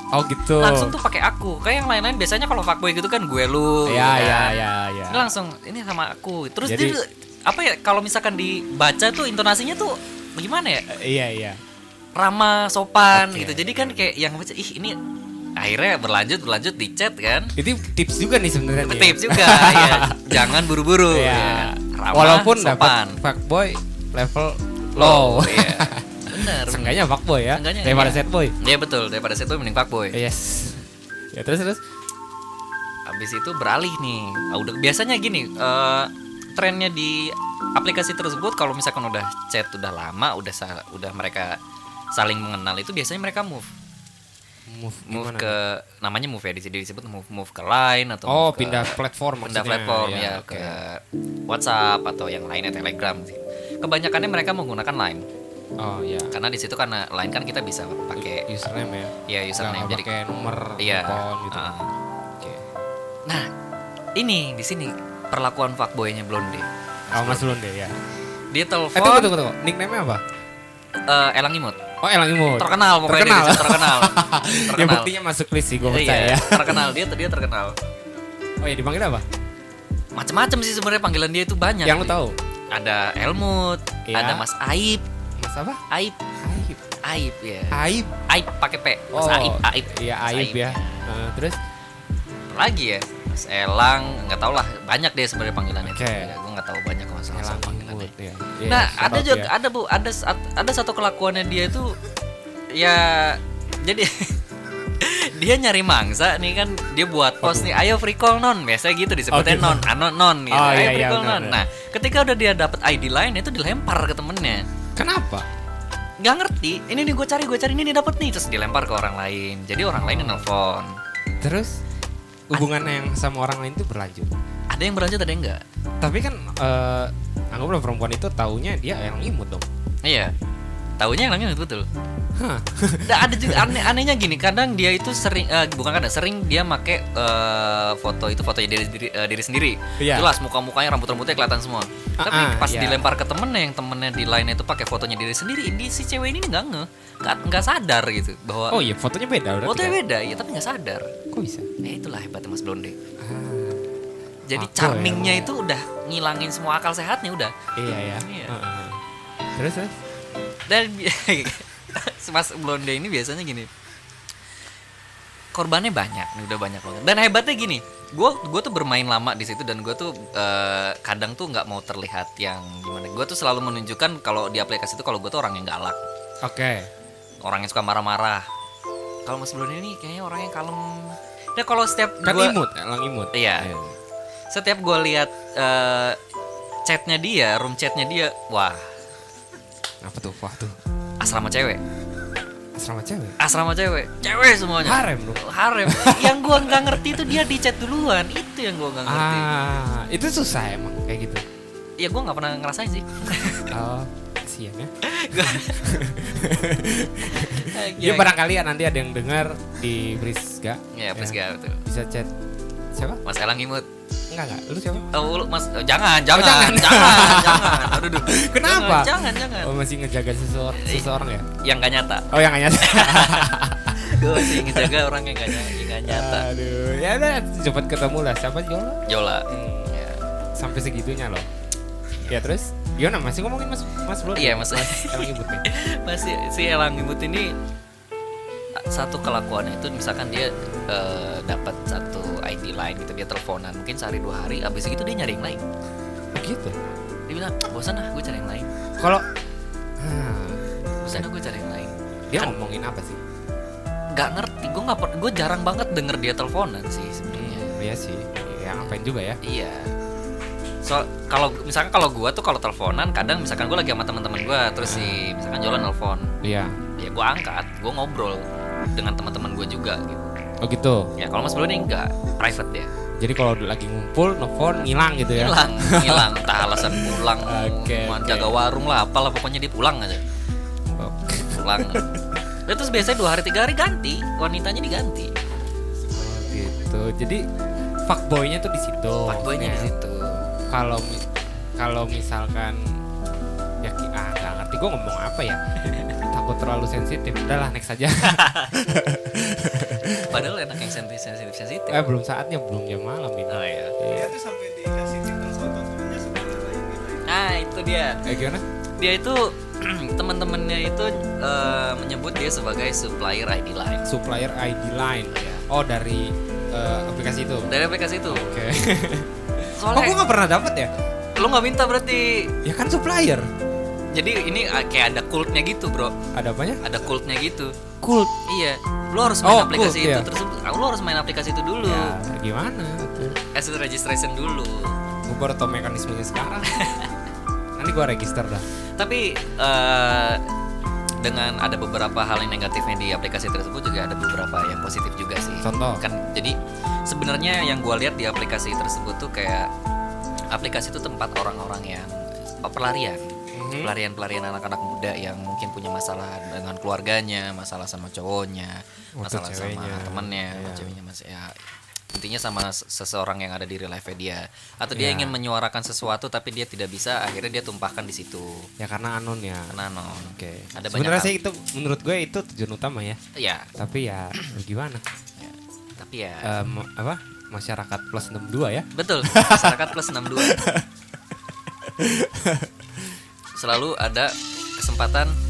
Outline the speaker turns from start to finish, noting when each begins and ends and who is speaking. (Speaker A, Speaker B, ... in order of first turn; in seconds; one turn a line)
Speaker A: 0.1-0.9
Speaker B: 0.6-4.6
Speaker A: 3.9-5.3
Speaker B: 5.1-10.8
Speaker A: 6.6-7.0
Speaker A: 10.9-11.6
Speaker B: 12.2-15.0
Speaker A: 13.1-13.9
Speaker B: 15.6-17.6
Speaker A: 17.6-28.5
Speaker B: 18.8-23.2
Speaker B: 24.9-30.2
Speaker A: 30.1-31.8
Speaker B: 33.0-41.6
Speaker B: 42.1-43.7
Speaker A: 44.7-45.6
Speaker B: 45.1-55.2
Speaker A: 48.3-50.8
Speaker A: 55.8-56.3
Speaker B: 56.3-58.5
Speaker A: 58.2-61.8
Speaker B: 59.3-60.1
Speaker B: 60.8-61.9
Speaker B: 64.2-67.5
Speaker A: 67.1-68.0
Speaker B: 68.5-69.3
Speaker A: 68.9-70.2
Speaker B: 71.1-71.8
Speaker A: 72.0-76.9
Speaker B: 72.6-75.1
Speaker B: 75.8-77.7
Speaker A: 78.6-79.2
Speaker B: 80.2-82.2
Speaker A: 81.8-82.3
Speaker B: 82.7-85.0
Speaker A: 84.1-84.5
Speaker A: 85.4-85.8
Speaker B: 85.9-86.2
Speaker A: 86.4-86.8
Speaker B: 87.0-91.1
Speaker A: 87.7-88.2
Speaker A: 89.1-91.6
Speaker B: 92.5-98.1
Speaker A: 95.8-96.3
Speaker A: 97.3-99.5
Speaker B: 98.7-102.0
Speaker B: 102.7-104.4
Speaker B: 105.0-114.6
Speaker A: 107.4-107.7
Speaker A: 109.3-109.9
Speaker A: 110.5-111.6
Speaker A: 115.0-115.5
Speaker B: 116.2-121.0
Speaker A: 119.9-120.4
Speaker A: 121.4-121.8
Speaker A: 122.5-124.3
Speaker B: 124.7-125.6
Speaker A: 126.0-129.6
Speaker B: 130.0-130.3
Speaker B: 131.0-131.9
Speaker A: 132.3-133.8
Speaker B: 133.1-148.8
Speaker A: 140.0-140.3
Speaker A: 142.2-143.0
Speaker A: 148.7-150.0
Speaker B: 149.6-151.1
Speaker A: 151.3-151.7
Speaker B: 151.8-152.9
Speaker A: 153.2-153.8
Speaker B: 154.5-158.6
Speaker A: 154.6-155.5
Speaker A: 157.8-159.0
Speaker A: 159.6-159.9
Speaker B: 160.7-163.7
Speaker B: 165.5-176.0
Speaker A: 176.4-176.9
Speaker B: 177.4-178.4
Speaker B: 179.2-182.6
Speaker A: 182.2-183.9
Speaker B: 183.3-183.7
Speaker B: 184.5-186.2
Speaker B: 186.8-188.9
Speaker A: 190.0-190.8
Speaker B: 191.2-191.8
Speaker A: 192.8-193.3
Speaker B: 193.4-199.5
Speaker A: 194.8-197.3
Speaker A: 199.1-201.4
Speaker B: 202.0-203.7
Speaker A: 203.7-212.3
Speaker B: 205.0-205.9
Speaker B: 207.2-208.3
Speaker B: 210.9-211.8
Speaker A: 212.9-213.2
Speaker B: 213.2-213.9
Speaker A: 214.3-215.1
Speaker B: 215.1-219.7
Speaker A: 216.3-221.5
Speaker B: 220.8-226.5
Speaker A: 222.3-224.9
Speaker A: 225.5-229.9
Speaker B: 229.1-230.2
Speaker A: 230.6-231.5
Speaker A: 232.3-235.6
Speaker B: 234.3-237.5
Speaker B: 238.8-245.6
Speaker A: 246.3-246.8
Speaker B: 247.3-248.7
Speaker A: 249.0-249.2
Speaker A: 250.0-251.3
Speaker B: 251.0-252.5
Speaker A: 252.3-253.2
Speaker B: 254.1-257.7
Speaker A: 257.3-259.4
Speaker B: 259.4-259.9
Speaker B: 260.8-266.3
Speaker A: 264.8-265.2
Speaker A: 266.4-266.8
Speaker B: 267.0-270.3
Speaker A: 270.6-271.1
Speaker B: 271.2-272.9
Speaker A: 273.2-278.5
Speaker B: 275.3-280.2
Speaker A: 280.9-282.2
Speaker B: 281.5-282.1
Speaker B: 282.7-285.3
Speaker A: 286.1-287.4
Speaker A: 288.1-289.9
Speaker B: 289.3-290.4
Speaker A: 290.7-291.2
Speaker A: 291.8-292.8
Speaker A: 293.8-295.6
Speaker B: 295.8-296.1
Speaker A: 296.3-300.5
Speaker B: 298.2-298.7
Speaker B: 300.2-302.1
Speaker A: 301.9-304.3
Speaker B: 303.5-304.0
Speaker C: 304.1-307.3
Speaker B: 307.2-308.2
Speaker A: 308.2-308.6
Speaker B: 309.0-314.0
Speaker A: 314.0-317.7
Speaker B: 315.3-315.6
Speaker B: 317.6-318.5
Speaker A: 318.3-320.9
Speaker B: 319.8-320.2
Speaker B: 321.4-322.5
Speaker A: 322.6-323.5
Speaker B: 324.1-326.1
Speaker A: 326.3-326.9
Speaker B: 326.8-327.7
Speaker A: 328.0-328.3
Speaker B: 328.4-332.1
Speaker A: 329.4-330.3
Speaker A: 331.8-333.4
Speaker B: 333.5-334.9
Speaker A: 335.3-336.7
Speaker B: 336.7-337.1
Speaker A: 337.8-338.6
Speaker B: 339.0-340.4
Speaker B: 341.2-346.6
Speaker A: 345.6-346.0
Speaker B: 347.1-349.7
Speaker B: 350.5-353.3
Speaker A: 353.5-353.9
Speaker B: 353.8-361.6
Speaker A: 359.2-360.9
Speaker B: 362.1-368.7
Speaker A: 364.9-365.4
Speaker A: 368.8-373.2
Speaker B: 369.7-371.3
Speaker B: 373.4-373.7
Speaker A: 373.8-375.0
Speaker B: 375.4-376.5
Speaker A: 376.4-380.9
Speaker B: 378.9-380.6
Speaker A: 381.8-382.7
Speaker B: 383.6-385.3